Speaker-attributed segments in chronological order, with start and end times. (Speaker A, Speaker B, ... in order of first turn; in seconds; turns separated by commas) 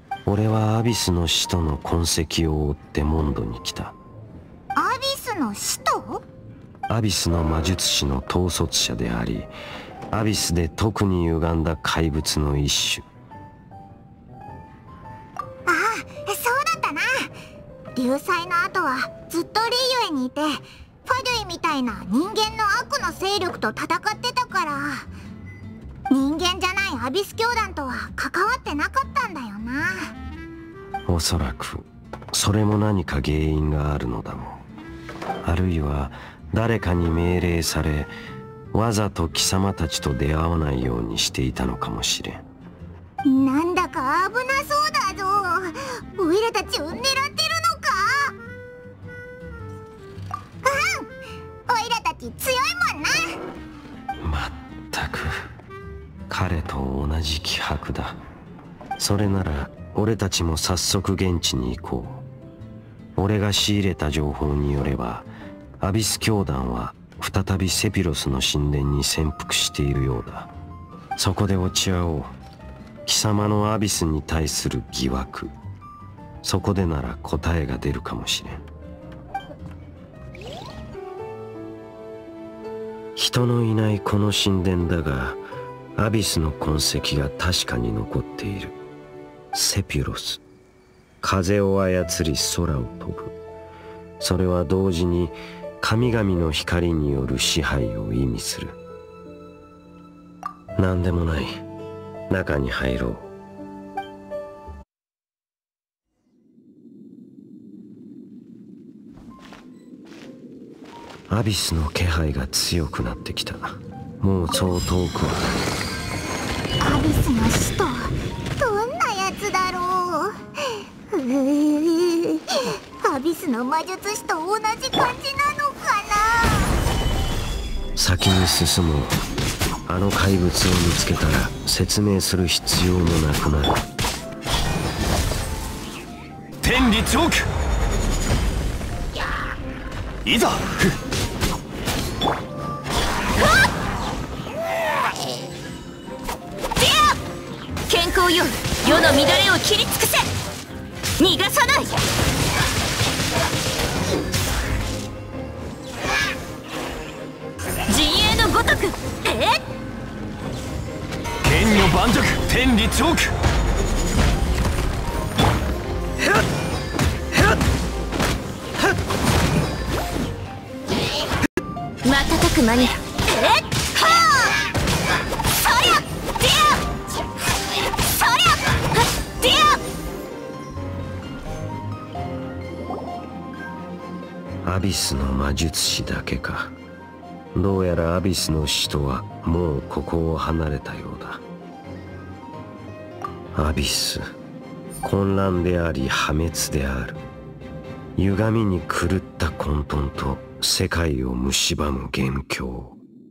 Speaker A: 0.2-4.0, Speaker B: 4.7-6.2, Speaker A: 6.9-9.5, Speaker A: 10.1-13.1, Speaker B: 15.7-17.3, Speaker B: 17.9-25.1, Speaker B: 26.1-30.1, Speaker A: 31.1-34.6, Speaker A: 35.4-38.1, Speaker A: 38.7-42.4, Speaker B: 43.2-48.4, Speaker B: 50.6-51.1, Speaker B: 51.7-53.4, Speaker A: 54.2-55.4, Speaker A: 56.3-58.2, Speaker A: 59.0-62.2, Speaker A: 63.1-65.3, Speaker A: 65.8-70.5, Speaker A: 71.2-72.3, Speaker A: 73.0-75.5, Speaker A: 76.4-78.6, Speaker A: 83.2-85.4, Speaker A: 86.0-88.8, Speaker A: 89.5-90.4, Speaker A: 91.2-93.3, Speaker A: 94.2-98.8, Speaker A: 100.8-101.6, Speaker A: 102.3-103.3, Speaker A: 111.3-115.5, Speaker B: 116.8-120.3, Speaker B: 121.1-122.4, Speaker B: 123.0-126.7, Speaker A: 128.0-129.2, Speaker A: 129.8-133.8, Speaker C: 136.6-137.4, Speaker C: 140.2-140.9, Speaker D: 146.8-147.2, Speaker D: 147.9-150.2, Speaker D: 151.2-151.9, Speaker D: 157.9-159.5, Speaker C: 161.4-163.3, Speaker D: 173.3-174.2, Speaker D: 175.6-176.7, Speaker D: 178.2-179.8, Speaker A: 184.6-186.7, Speaker A: 187.5-191.4, Speaker A: 193.5-194.3, Speaker A: 195.0-197.2, Speaker A: 198.2-203.0